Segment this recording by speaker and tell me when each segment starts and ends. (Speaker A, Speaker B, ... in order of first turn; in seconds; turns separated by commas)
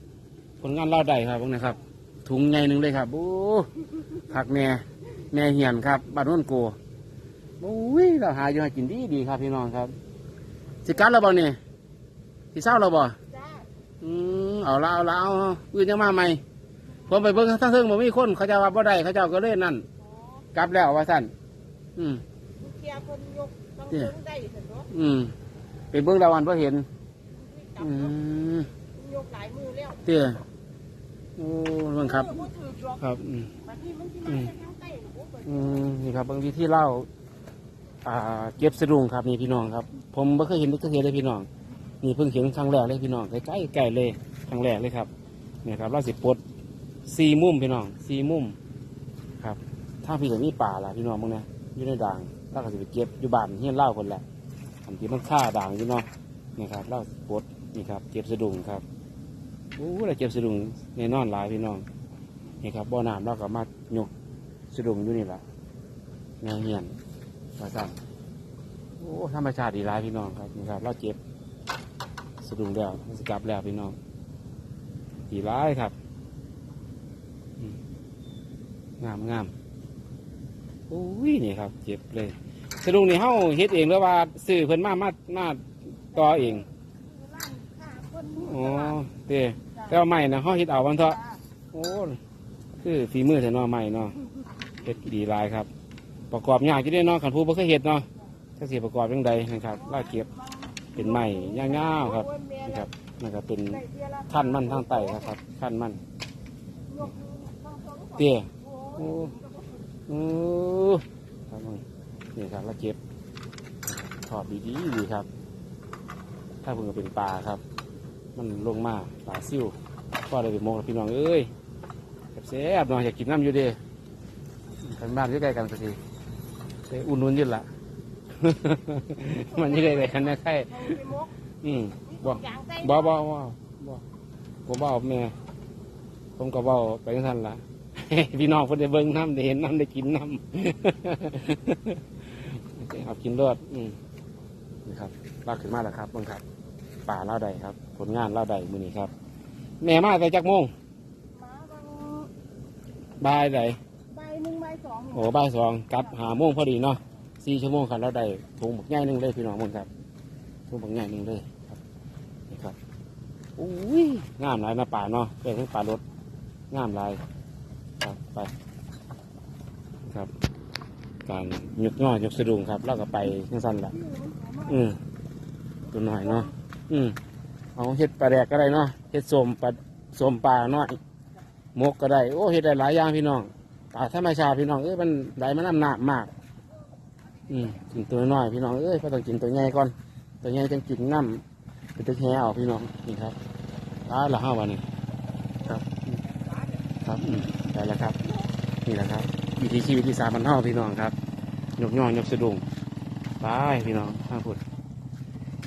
Speaker A: 0.6-3.7, Speaker A: 4.3-6.8, Speaker A: 7.6-9.9, Speaker A: 10.8-11.6, Speaker A: 12.5-13.2, Speaker B: 13.3-13.7, Speaker A: 14.0-16.4, Speaker A: 17.1-19.9, Speaker A: 20.5-21.3, Speaker A: 22.0-22.2, Speaker B: 22.6-24.9, Speaker A: 24.9-25.3, Speaker A: 25.9-26.9, Speaker B: 27.5-28.1, Speaker A: 27.8-28.7, Speaker B: 29.0-30.0, Speaker A: 30.0-30.4, Speaker A: 31.4-33.5, Speaker B: 32.4-32.8, Speaker B: 33.6-35.5, Speaker A: 35.4-37.1, Speaker A: 38.0-41.5, Speaker A: 42.0-45.1, Speaker A: 45.6-46.4, Speaker A: 47.1-48.6, Speaker A: 49.4-54.2, Speaker A: 54.9-56.1, Speaker A: 56.6-58.8, Speaker A: 59.8-61.9, Speaker A: 62.6-64.1, Speaker A: 64.7-65.4, Speaker A: 66.4-67.0, Speaker A: 67.6-68.0, Speaker A: 69.0-71.2, Speaker A: 72.4-74.0, Speaker A: 75.3-75.9, Speaker A: 79.0-79.5, Speaker A: 80.9-86.7, Speaker B: 87.1-88.9, Speaker A: 88.4-91.2, Speaker A: 91.7-92.2, Speaker A: 92.8-94.2, Speaker A: 94.8-95.7, Speaker A: 96.3-98.1, Speaker A: 98.6-100.3, Speaker B: 100.3-102.7, Speaker A: 101.0-106.0, Speaker B: 103.8-105.2, Speaker B: 106.9-109.4, Speaker A: 108.2-109.3, Speaker A: 110.1-111.8, Speaker A: 112.3-113.0, Speaker A: 113.9-115.3, Speaker A: 116.6-117.6, Speaker A: 118.4-119.8, Speaker A: 120.3-121.5, Speaker A: 122.4-123.8, Speaker A: 124.8-126.0, Speaker A: 126.9-127.7, Speaker A: 128.4-131.0, Speaker B: 129.6-131.3, Speaker A: 131.6-134.0, Speaker B: 132.1-133.1, Speaker A: 134.7-135.3, Speaker A: 136.4-144.0, Speaker A: 144.8-146.4, Speaker A: 147.1-149.1, Speaker A: 149.8-150.7, Speaker B: 151.4-152.3, Speaker A: 153.2-153.8, Speaker B: 154.1-155.2, Speaker A: 155.1-159.9, Speaker A: 160.7-161.8, Speaker A: 162.5-162.8, Speaker A: 163.6-166.0, Speaker A: 166.7-167.2, Speaker A: 168.0-168.5, Speaker A: 171.3-174.0, Speaker B: 174.4-174.6, Speaker A: 174.7-175.0, Speaker A: 175.9-177.2, Speaker A: 177.8-181.0, Speaker A: 181.8-186.3, Speaker A: 187.5-191.4, Speaker A: 192.0-193.4, Speaker A: 194.1-194.8, Speaker A: 195.6-196.2, Speaker A: 197.0-198.2, Speaker A: 198.8-201.2, Speaker A: 201.8-202.7, Speaker A: 203.4-204.6